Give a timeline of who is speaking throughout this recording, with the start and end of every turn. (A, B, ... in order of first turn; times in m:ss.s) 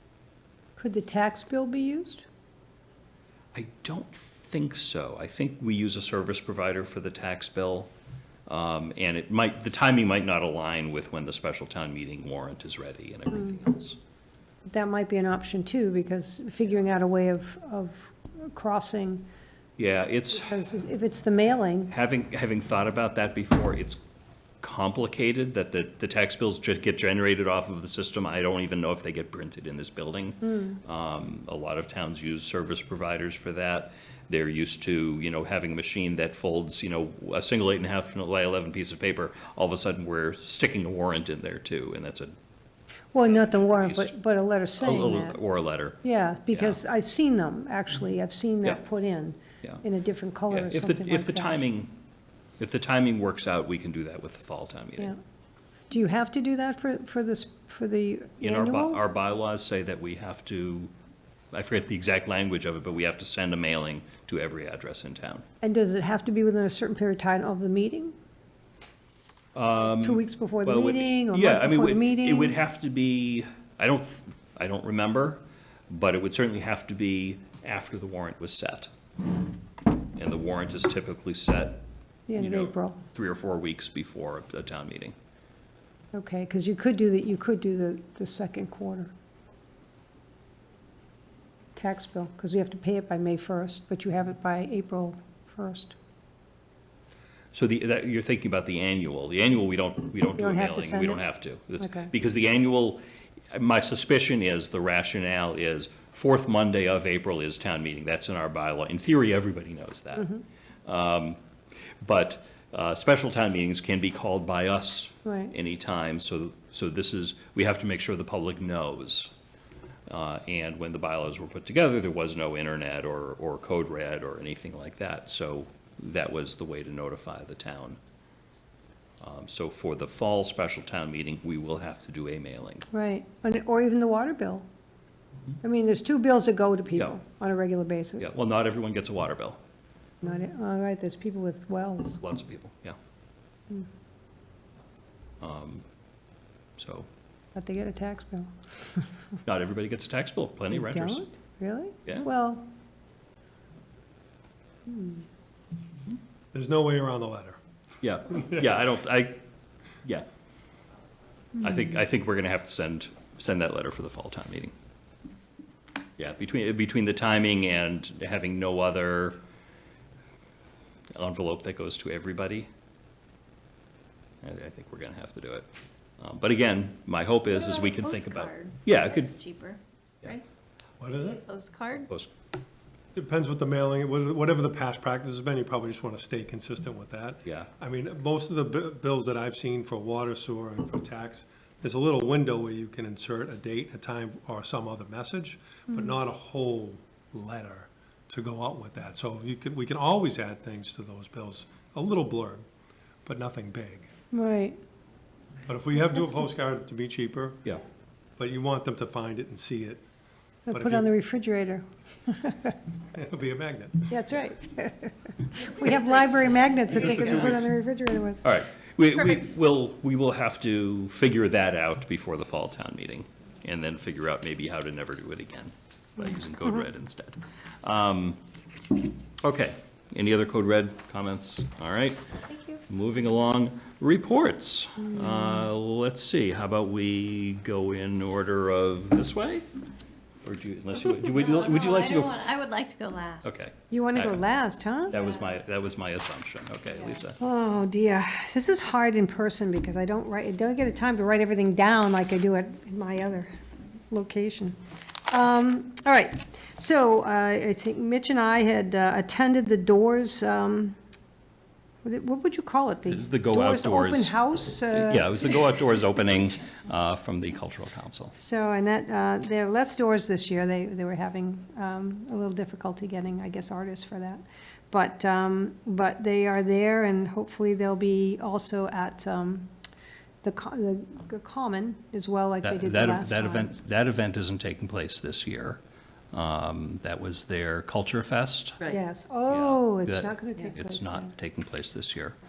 0:00.8-0:02.2 A
0:03.5-0:07.9 B
0:08.5-0:14.0 B
0:14.7-0:19.3 A
0:19.8-0:20.6 B
0:20.4-0:21.9 A
0:21.9-0:24.0 B
0:24.6-0:42.3 B
0:30.4-0:30.8 A
0:43.1-0:45.4 A
0:43.3-0:44.1 B
0:44.8-0:46.8 B
0:46.0-0:51.6 A
0:50.5-0:51.9 B
0:52.6-0:55.1 B
0:55.9-0:59.0 A
0:58.4-1:00.9 B
1:01.5-1:05.4 B
1:05.6-1:08.2 A
1:09.6-1:18.9 B
1:10.0-1:12.6 A
1:20.2-1:21.8 B
1:22.3-1:23.0 A
1:22.4-1:25.2 B
1:26.1-1:29.1 A
1:31.8-1:36.0 A
1:37.5-1:51.4 B
1:40.4-1:41.2 A
1:41.8-1:42.1 A
1:52.0-1:59.3 B
1:55.3-1:55.5 A
2:00.1-2:08.0 B
2:09.2-2:12.9 B
2:12.9-2:14.7 A
2:15.6-2:18.3 A
2:18.2-2:19.6 B
2:20.2-2:22.2 A
2:22.2-2:23.0 B
2:25.4-2:25.8 B
2:26.8-2:27.1 B
2:27.6-2:29.1 A
2:29.5-2:31.2 B
2:30.7-2:32.7 A
2:34.9-2:35.2 A
2:36.5-2:37.6 C
2:38.0-2:39.4 B
2:41.6-2:44.7 B
2:46.2-2:49.4 B
2:51.2-2:52.7 B
2:54.4-2:55.7 B
2:56.2-2:59.4 B
2:57.6-3:00.4 D
3:01.0-3:01.4 C
3:01.5-3:02.1 D
3:02.0-3:02.3 B
3:03.2-3:22.6 C
3:15.9-3:16.1 A
3:23.2-3:24.1 C
3:24.3-3:24.8 A
3:25.7-3:27.6 C
3:28.4-3:30.0 C
3:30.7-3:32.8 A
3:30.7-3:31.1 C
3:33.1-3:34.2 C
3:34.1-3:38.4 A
3:38.4-3:48.4 B
3:49.4-3:52.2 B
3:52.9-3:59.7 B
4:00.4-4:02.6 B
4:01.4-4:03.5 D
4:03.4-4:04.4 B
4:03.9-4:05.2 A
4:05.1-4:07.4 B
4:07.4-4:13.5 A
4:14.1-4:21.0 A
4:22.0-4:25.7 A
4:23.1-4:24.4 B
4:24.9-4:28.3 B
4:28.4-4:39.7 A
4:40.4-4:43.7 A
4:42.6-4:45.8 B
4:46.3-4:48.9 B
4:48.9-4:51.3 A
4:49.5-4:52.4 B